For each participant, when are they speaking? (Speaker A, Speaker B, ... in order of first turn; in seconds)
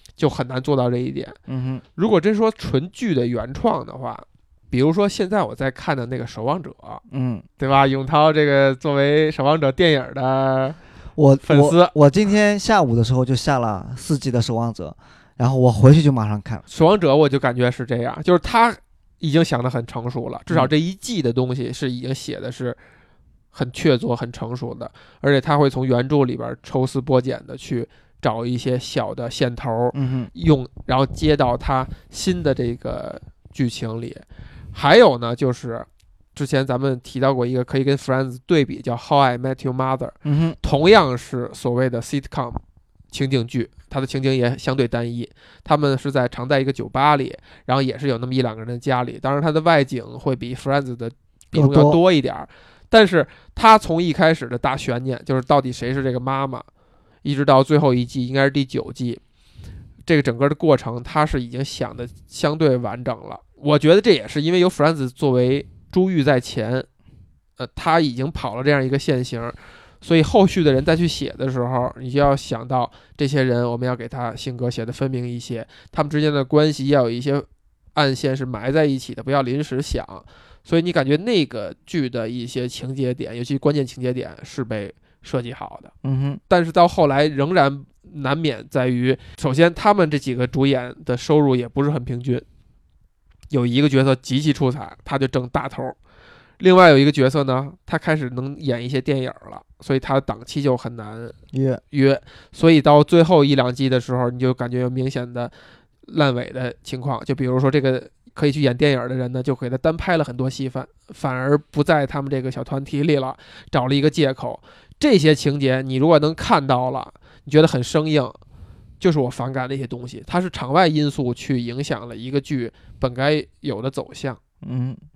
Speaker A: 0.2-1.4, 1.9-7.0, 7.6-10.8, 11.4-11.9, 16.7-22.8, 23.5-42.6, 43.1-56.6, 57.2-59.2, 60.1-66.9, 67.6-85.9, 86.5-92.5, 93.5-96.0, 96.6-101.4, 101.9-118.4, 119.0-124.4
Speaker B: 1.5-1.8, 7.1-7.4, 11.2-16.6, 29.9-30.3, 40.2-40.6, 51.5-52.0, 86.0-86.4, 101.5-101.8, 124.6-125.0